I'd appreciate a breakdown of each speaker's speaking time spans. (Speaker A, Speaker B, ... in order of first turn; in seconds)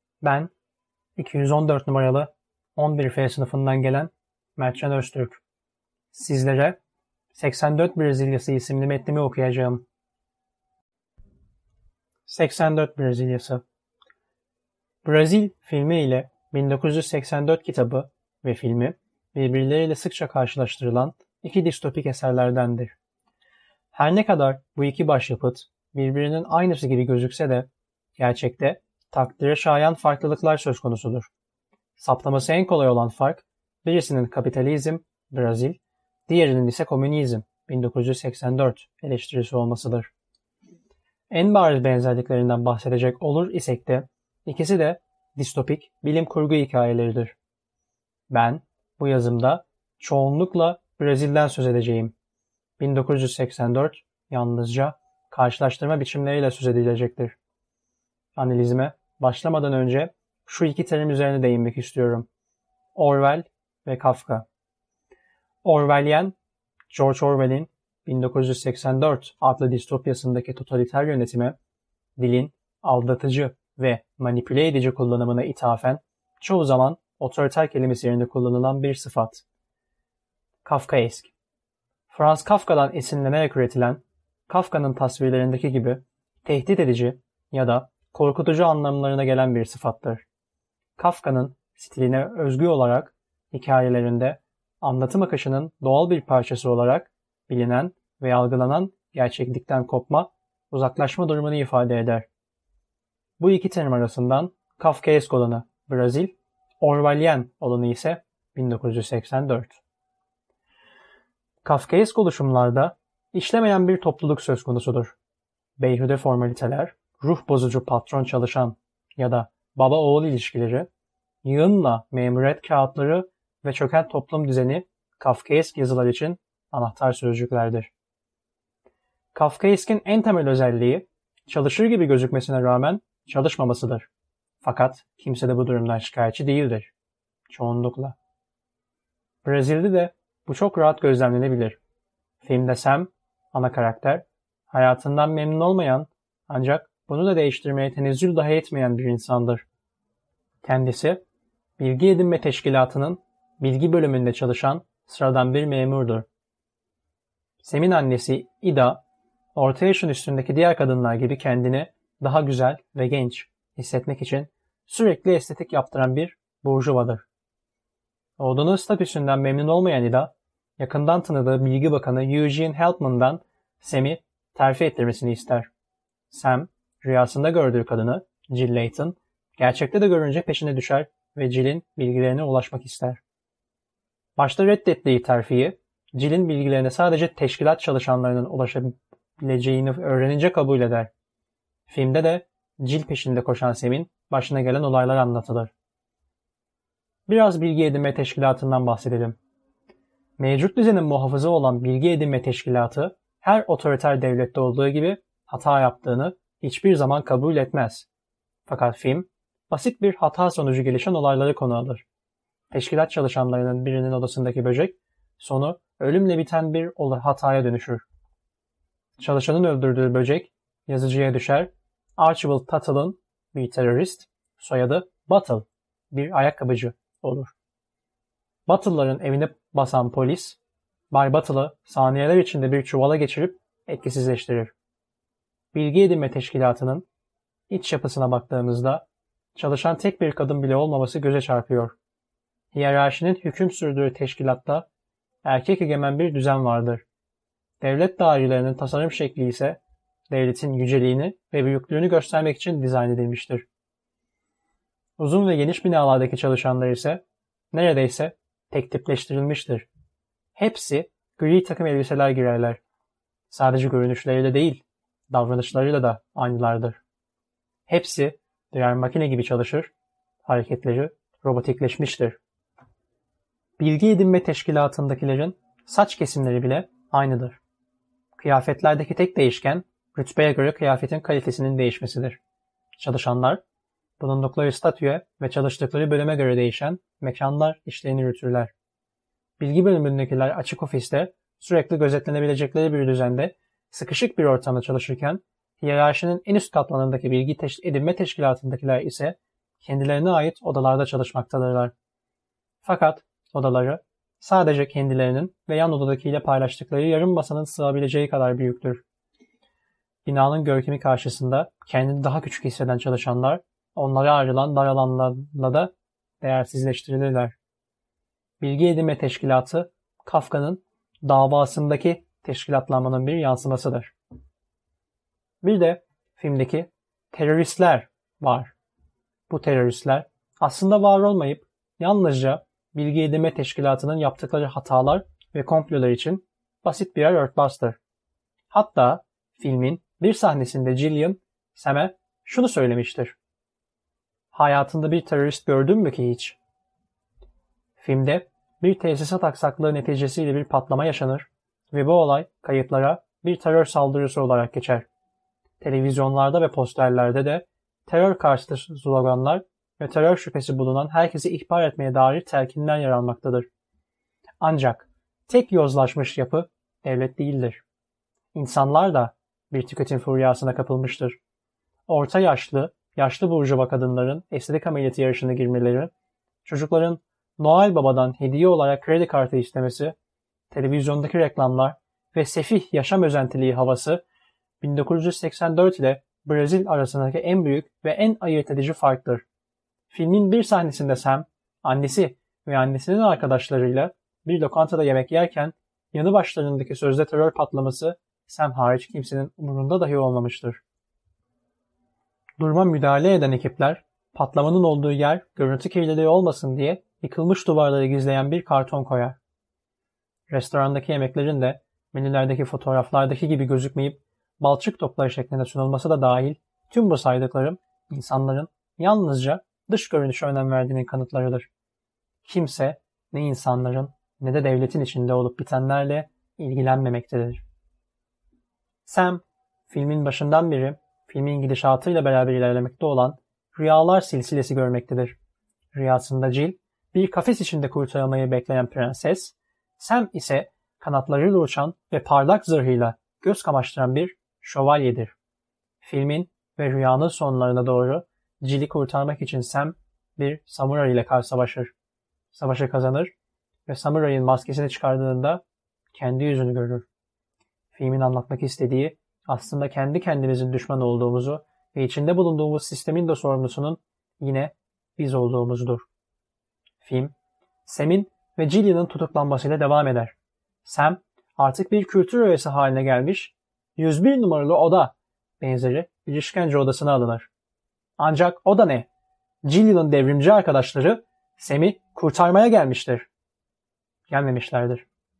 Speaker A: 0.2-0.5, 1.2-5.4, 6.1-6.8, 7.3-9.8, 12.2-13.6, 15.0-22.9, 23.9-31.3, 32.0-40.1, 41.3-47.4, 48.3-52.1, 52.8-57.4, 58.4-62.3, 62.9-64.5, 65.6-66.3, 66.9-71.6, 72.2-79.4, 80.6-81.3, 82.1-90.2, 91.0-102.2, 103.4-109.8, 111.6-115.2, 115.8-120.9, 121.4-127.9, 129.3-134.1, 134.6-136.9, 137.5-138.2, 139.4-141.8, 142.4-149.6, 150.6-151.2, 151.8-156.2, 157.6-159.0, 159.6-167.2, 168.4-175.7, 176.3-183.2, 184.4-191.1, 191.9-195.7, 197.3-199.3, 200.4-208.1, 208.7-212.0, 212.7-218.0, 219.2-227.5, 228.7-230.6, 231.1-234.7, 235.7-237.1, 237.7-239.0, 239.6-241.9, 242.7-244.9, 245.4-247.0, 247.8-249.8, 250.3-253.7, 255.2-257.2, 257.7-259.9, 260.6-262.8, 263.5-267.0, 267.9-269.9, 270.4-272.4, 273.8-277.6, 278.4-282.4, 283.0-283.6, 284.2-288.7, 289.6-301.9, 302.8-309.0, 310.2-317.5, 318.6-324.1, 325.6-328.7, 329.5-338.0, 338.7-343.4, 344.5-346.6, 348.0-355.1, 355.8-363.7, 364.6-367.8, 368.5-371.4, 372.1-376.1, 376.6-380.1, 380.7-384.2, 384.8-389.4, 390.1-400.8, 402.6-409.4, 410.5-421.7, 422.4-427.6, 429.1-435.3, 435.9-445.3, 446.0-451.9, 452.5-453.3, 453.9-455.6, 456.1-457.1, 457.9-466.1, 467.0-467.3, 467.8-477.5, 478.2-479.1, 479.6-483.3, 484.3-485.1